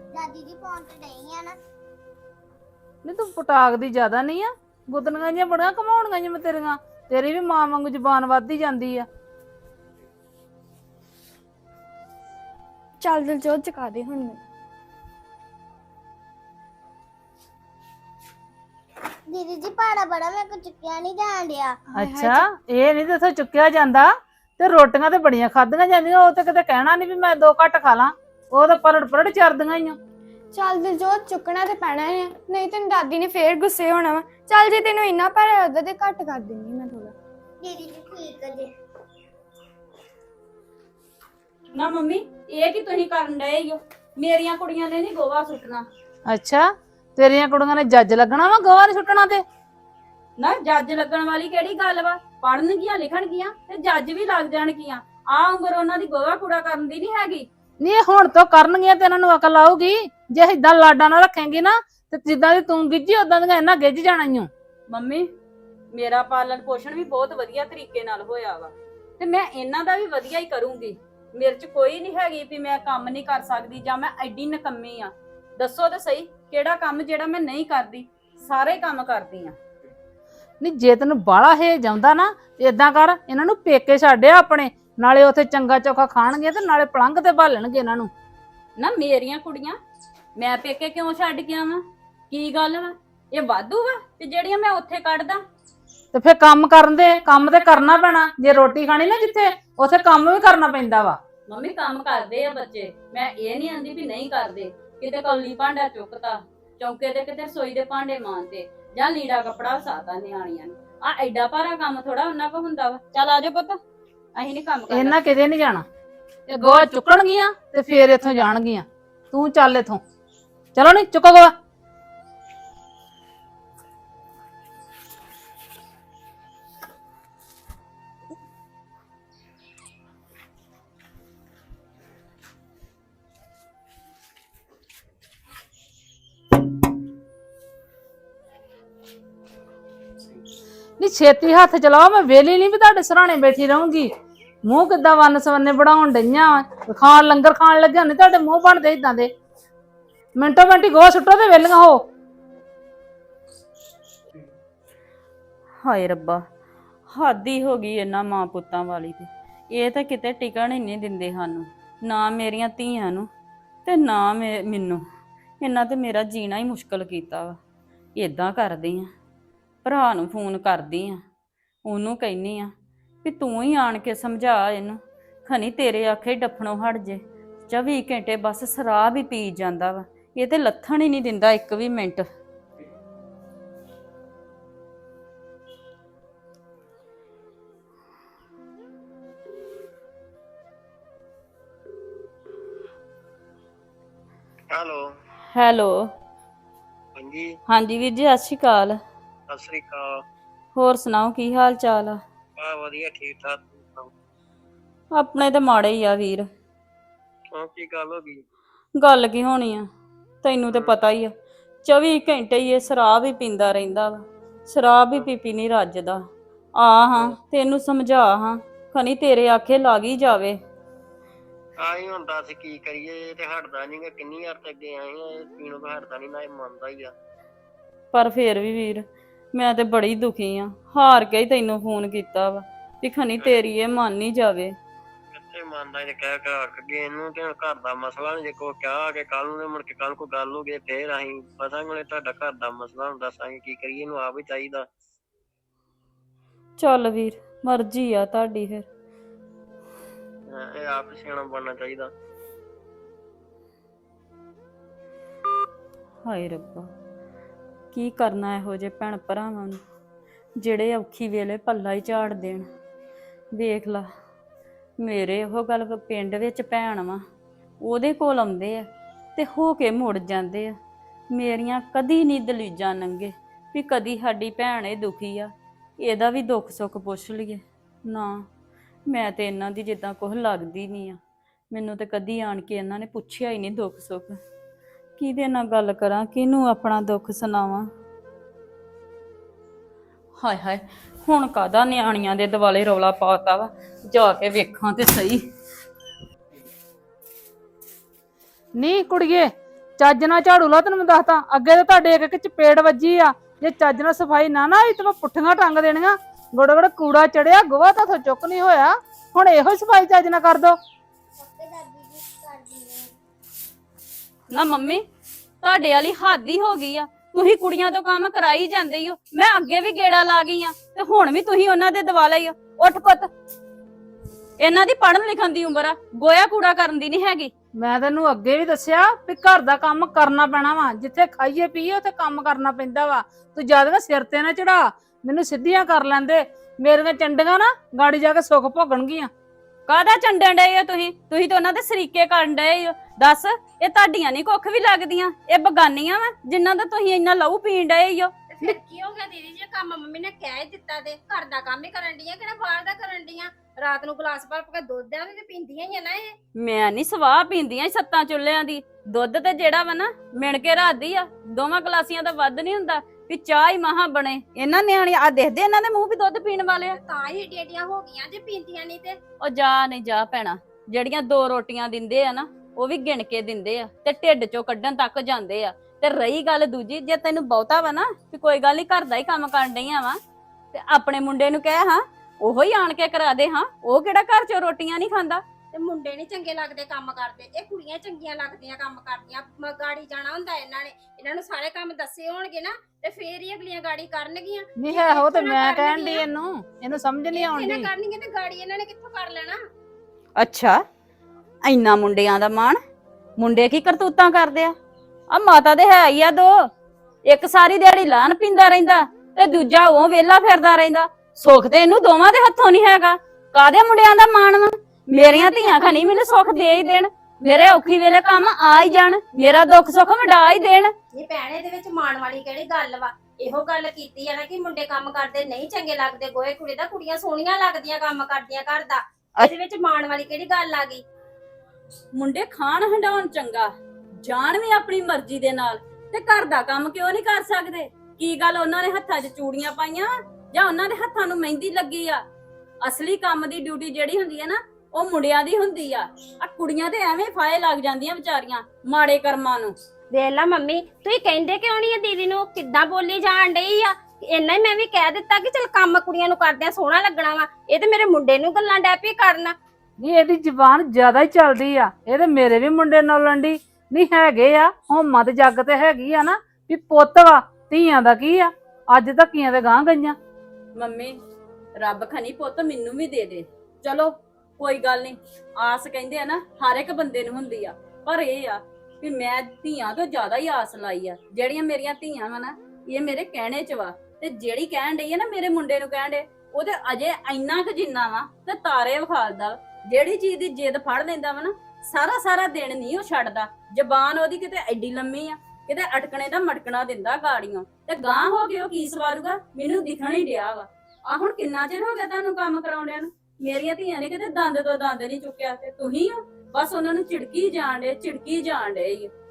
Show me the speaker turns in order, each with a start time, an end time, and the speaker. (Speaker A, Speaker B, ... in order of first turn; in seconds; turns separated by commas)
Speaker A: 0.1-1.6, Speaker B: 3.0-9.1, Speaker C: 13.0-14.4, Speaker A: 19.3-21.8, Speaker C: 21.9-22.4, Speaker B: 21.9-30.0, Speaker C: 30.5-37.1, Speaker A: 37.6-38.7, Speaker D: 41.7-45.8, Speaker B: 46.3-49.4, Speaker D: 50.4-57.4, Speaker B: 57.8-64.5, Speaker D: 64.9-65.3, Speaker D: 65.9-79.5, Speaker B: 80.6-88.1, Speaker D: 88.8-89.8, Speaker D: 90.3-95.4, Speaker B: 96.1-101.2, Speaker D: 101.5-113.8, Speaker D: 114.3-115.2, Speaker B: 114.9-115.8, Speaker B: 116.5-120.0, Speaker B: 120.7-121.5, Speaker B: 141.0-144.1, Speaker B: 144.7-149.3, Speaker B: 150.3-152.0, Speaker D: 155.8-156.4, Speaker D: 157.1-163.3, Speaker D: 163.8-165.0, Speaker D: 165.6-167.6, Speaker D: 168.2-169.1, Speaker D: 169.8-171.2, Speaker D: 171.8-172.7, Speaker D: 173.2-182.2, Speaker E: 194.7-195.0, Speaker D: 195.5-196.1, Speaker E: 197.2-197.5, Speaker D: 197.7-199.0, Speaker E: 199.5-200.2, Speaker D: 200.7-202.2, Speaker E: 202.6-204.1, Speaker D: 205.1-206.5, Speaker E: 207.6-208.4, Speaker D: 209.0-209.9, Speaker D: 210.4-211.3, Speaker E: 210.7-211.0, Speaker D: 211.8-216.2, Speaker D: 216.8-220.6, Speaker E: 221.8-227.1, Speaker D: 228.1-234.7, Speaker E: 235.3-244.8, Speaker D: 246.8-248.9, Speaker E: 250.5-252.1, Speaker D: 256.2-256.9, Speaker D: 257.9-259.8, Speaker D: 260.6-262.6, Speaker D: 263.5-264.1, Speaker D: 265.0-267.2, Speaker D: 267.8-270.7, Speaker D: 271.3-278.4, Speaker D: 279.1-281.2, Speaker D: 281.7-284.4, Speaker D: 285.2-287.9, Speaker D: 290.4-295.4, Speaker B: 298.8-310.8, Speaker A: 311.4-313.1, Speaker D: 314.5-315.0, Speaker D: 315.6-323.3, Speaker D: 324.6-327.5, Speaker B: 327.8-339.3, Speaker D: 339.9-348.3, Speaker F: 348.5-356.4, Speaker D: 356.6-367.0, Speaker F: 366.9-369.2, Speaker D: 369.4-380.2, Speaker D: 380.7-385.4, Speaker F: 385.7-396.2, Speaker B: 394.8-397.9, Speaker F: 397.3-399.6, Speaker D: 400.4-400.8, Speaker D: 401.6-402.8, Speaker D: 403.4-404.7, Speaker D: 405.3-406.6, Speaker D: 407.3-420.9, Speaker F: 415.1-416.0, Speaker F: 421.1-431.0, Speaker D: 432.1-433.7, Speaker D: 434.2-442.2, Speaker D: 442.8-449.7, Speaker F: 450.1-459.5, Speaker B: 460.0-470.1, Speaker D: 470.8-471.2, Speaker D: 471.8-509.1